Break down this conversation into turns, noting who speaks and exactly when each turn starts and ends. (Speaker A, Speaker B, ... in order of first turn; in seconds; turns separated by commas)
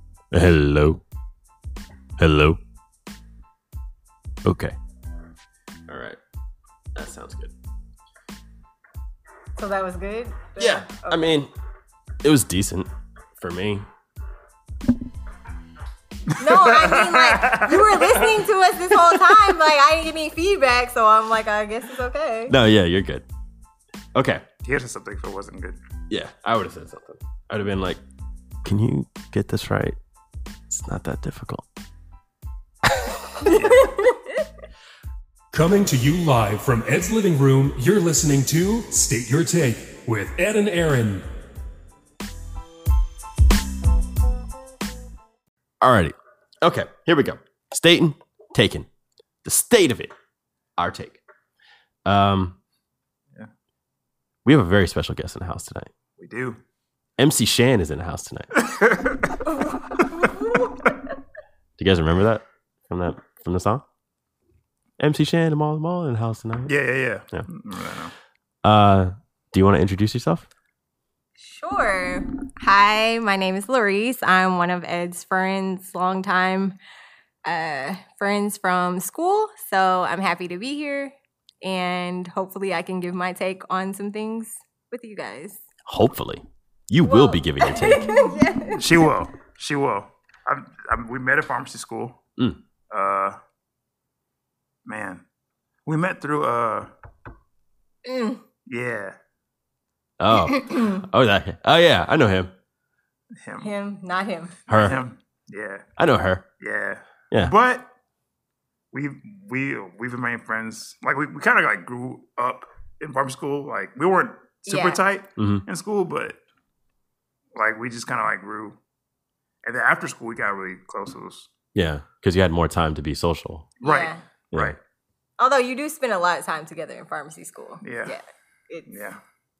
Speaker A: 0.3-1.0, Speaker A: 2.2-2.6, Speaker A: 4.4-4.7, Speaker A: 5.9-6.2, Speaker A: 6.9-7.5, Speaker B: 9.6-11.2, Speaker A: 10.6-11.5, Speaker A: 12.2-13.8, Speaker C: 16.3-18.4, Speaker B: 16.4-22.5, Speaker C: 19.1-19.5, Speaker A: 22.5-23.2, Speaker A: 24.1-24.4, Speaker C: 24.6-25.8, Speaker A: 26.1-28.0, Speaker A: 28.6-30.0, Speaker A: 30.7-31.6, Speaker C: 33.4-33.9, Speaker B: 33.5-34.2, Speaker D: 35.5-41.2, Speaker A: 45.8-48.9, Speaker A: 49.4-50.1, Speaker A: 50.8-51.2, Speaker A: 52.0-52.5, Speaker A: 54.4-55.9, Speaker C: 56.2-56.6, Speaker A: 57.2-58.6, Speaker C: 58.5-59.3, Speaker A: 61.8-63.8, Speaker A: 65.0-66.7, Speaker C: 66.7-68.1, Speaker A: 68.6-70.5, Speaker B: 71.4-76.8, Speaker B: 77.4-85.6, Speaker A: 85.8-88.1, Speaker B: 87.0-89.1, Speaker C: 88.8-92.2, Speaker C: 92.9-93.4, Speaker C: 94.8-95.2, Speaker C: 95.8-96.9, Speaker B: 98.0-98.4, Speaker C: 98.7-99.1, Speaker A: 100.2-102.5, Speaker B: 100.4-101.0, Speaker C: 103.4-103.7, Speaker B: 103.6-104.5, Speaker C: 104.7-105.8, Speaker A: 104.7-105.0, Speaker A: 106.0-106.4, Speaker C: 106.6-107.9, Speaker C: 108.9-116.4, Speaker B: 114.7-115.0, Speaker A: 115.4-115.6, Speaker C: 117.5-118.8, Speaker C: 119.6-121.5, Speaker A: 121.7-123.7, Speaker C: 123.8-124.8, Speaker B: 123.8-124.2, Speaker A: 124.5-124.8, Speaker B: 125.4-129.1, Speaker C: 127.8-128.1, Speaker C: 128.9-129.2